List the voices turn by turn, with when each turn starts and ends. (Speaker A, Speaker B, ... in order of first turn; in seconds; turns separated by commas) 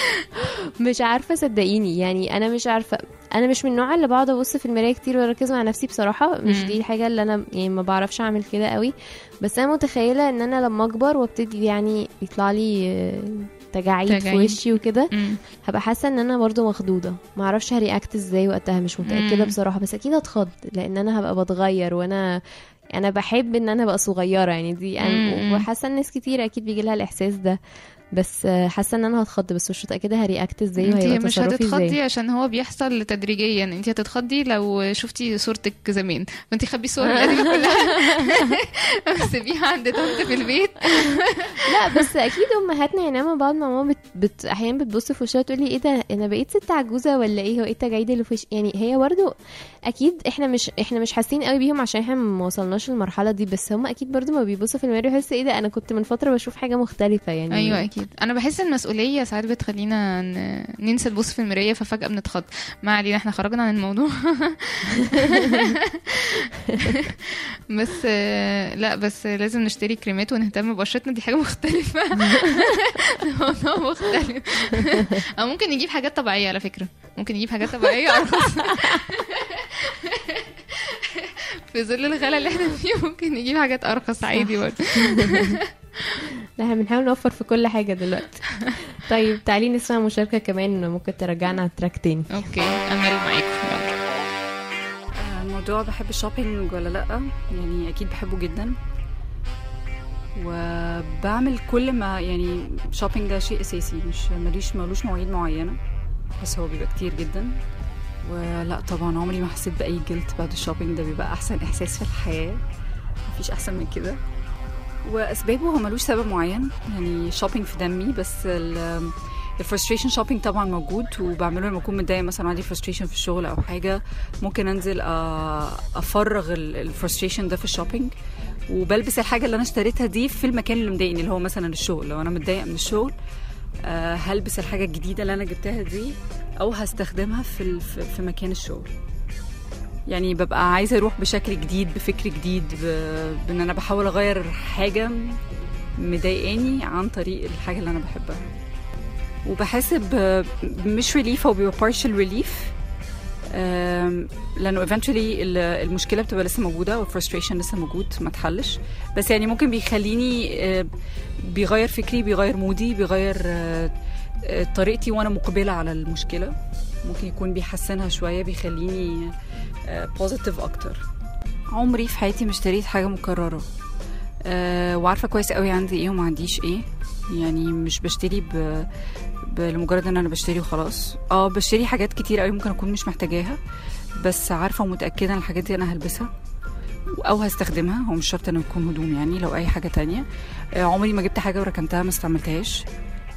Speaker A: 0.8-15.1, Speaker B: 6.5-6.7, Speaker B: 14.1-15.4, Speaker A: 15.6-22.4, Speaker B: 19.1-19.5, Speaker A: 22.9-27.6, Speaker B: 25.0-25.6, Speaker A: 28.2-32.0, Speaker B: 30.8-38.6, Speaker A: 37.0-38.5, Speaker B: 39.1-42.0, Speaker A: 41.6-49.3, Speaker A: 49.9-57.9, Speaker B: 57.5-65.8, Speaker A: 65.1-65.5, Speaker B: 66.3-85.6, Speaker A: 72.3-72.6, Speaker A: 74.7-75.2, Speaker A: 77.9-79.1, Speaker A: 84.3-85.5, Speaker A: 86.6-92.5, Speaker B: 92.3-93.9, Speaker C: 95.2-98.7, Speaker C: 100.4-105.8, Speaker C: 106.4-107.5, Speaker C: 108.2-112.6, Speaker C: 113.3-114.2, Speaker C: 115.1-128.1, Speaker C: 128.7-133.1, Speaker C: 133.9-138.9, Speaker C: 140.1-145.4, Speaker C: 146.0-148.4, Speaker C: 149.5-152.7, Speaker C: 153.5-160.9, Speaker C: 161.5-163.9, Speaker C: 164.5-166.5, Speaker C: 167.1-169.3, Speaker C: 169.9-171.0, Speaker C: 171.7-173.7, Speaker C: 174.5-178.9, Speaker C: 179.5-183.6, Speaker C: 184.2-186.3, Speaker C: 187.2-190.2, Speaker C: 190.8-192.8